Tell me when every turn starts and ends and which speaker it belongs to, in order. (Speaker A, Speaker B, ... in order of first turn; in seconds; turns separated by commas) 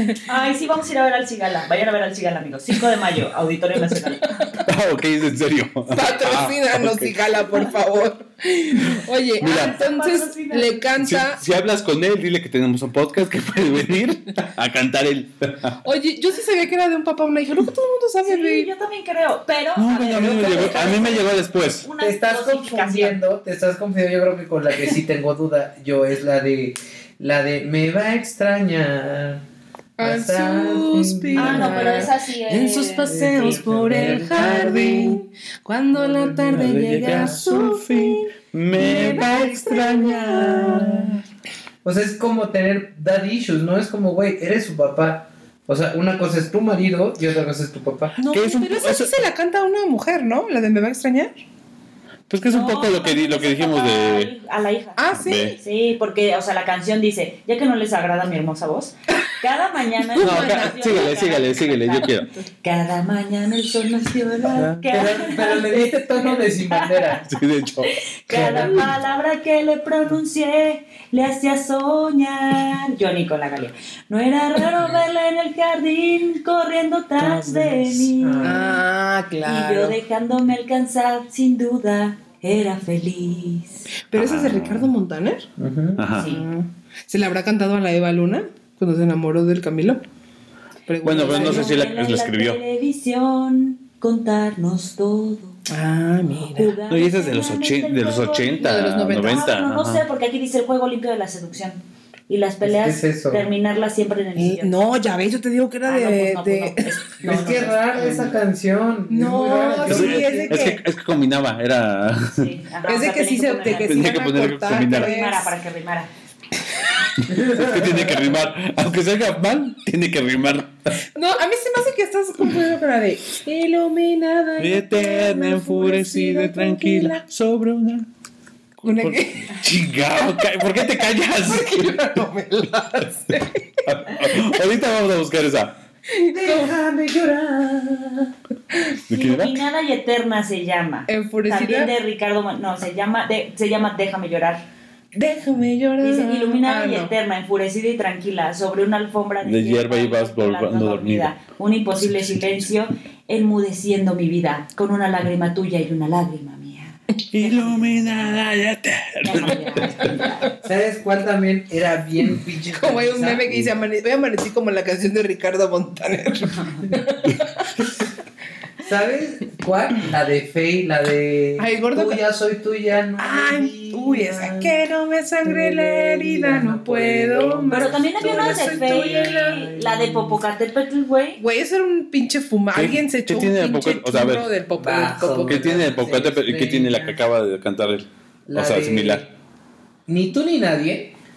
Speaker A: 0.1-4.4, Speaker B: 4.6-7.2, Speaker C: 5.9-11.4, Speaker B: 8.8-9.8, Speaker A: 9.4-10.8, Speaker B: 11.0-15.8, Speaker C: 15.8-18.7, Speaker A: 18.2-23.2, Speaker B: 19.8-21.9, Speaker D: 22.0-29.4, Speaker C: 30.0-41.1, Speaker D: 30.0-32.1, Speaker A: 31.4-33.6, Speaker D: 33.0-35.0, Speaker B: 33.9-35.2, Speaker D: 35.9-37.6, Speaker B: 36.5-41.2, Speaker D: 41.8-48.1, Speaker C: 48.2-51.4, Speaker B: 48.2-49.2, Speaker B: 52.3-54.3, Speaker A: 52.4-55.0, Speaker C: 55.0-55.6, Speaker B: 55.1-55.6, Speaker A: 55.6-67.0, Speaker C: 60.1-60.9, Speaker B: 60.2-62.3, Speaker D: 64.9-67.3, Speaker B: 67.3-68.8, Speaker A: 67.8-78.7, Speaker D: 68.3-68.8, Speaker B: 77.2-78.1, Speaker D: 78.2-78.8, Speaker C: 78.4-80.0, Speaker A: 79.4-83.8, Speaker C: 84.1-85.5, Speaker B: 84.1-84.9, Speaker D: 85.6-86.0, Speaker B: 86.0-86.3, Speaker A: 86.2-86.4, Speaker C: 86.2-90.0, Speaker C: 90.9-91.7, Speaker B: 91.0-92.6, Speaker A: 91.2-95.6, Speaker C: 95.7-96.8, Speaker A: 96.5-104.8, Speaker B: 96.9-100.0, Speaker C: 98.6-99.5, Speaker D: 102.6-103.5, Speaker C: 104.4-106.8, Speaker A: 105.8-108.3, Speaker D: 107.2-110.7, Speaker C: 109.1-110.8, Speaker B: 109.8-112.5, Speaker A: 112.3-114.2, Speaker C: 112.8-115.5, Speaker B: 113.7-115.2, Speaker A: 114.8-116.1, Speaker B: 117.2-120.9, Speaker D: 117.3-118.3, Speaker C: 121.1-127.2, Speaker B: 124.6-128.1, Speaker C: 128.8-129.6, Speaker B: 128.8-132.2, Speaker C: 131.4-133.6, Speaker B: 133.8-135.8, Speaker C: 136.1-136.7, Speaker D: 136.3-138.3, Speaker B: 139.1-139.6, Speaker A: 139.1-144.6, Speaker C: 141.1-141.9, Speaker C: 145.1-147.1, Speaker A: 146.0-158.4, Speaker B: 149.4-151.3, Speaker B: 152.1-152.6, Speaker B: 157.3-159.8, Speaker A: 159.2-160.5, Speaker D: 160.6-163.7, Speaker C: 162.7-167.7, Speaker D: 168.8-174.7, Speaker C: 171.6-172.2, Speaker C: 173.2-179.6, Speaker D: 175.4-180.4, Speaker A: 177.7-181.4, Speaker C: 181.4-185.8, Speaker B: 182.7-184.5, Speaker D: 184.8-187.2, Speaker B: 185.4-189.2, Speaker D: 188.5-189.3, Speaker D: 190.1-191.1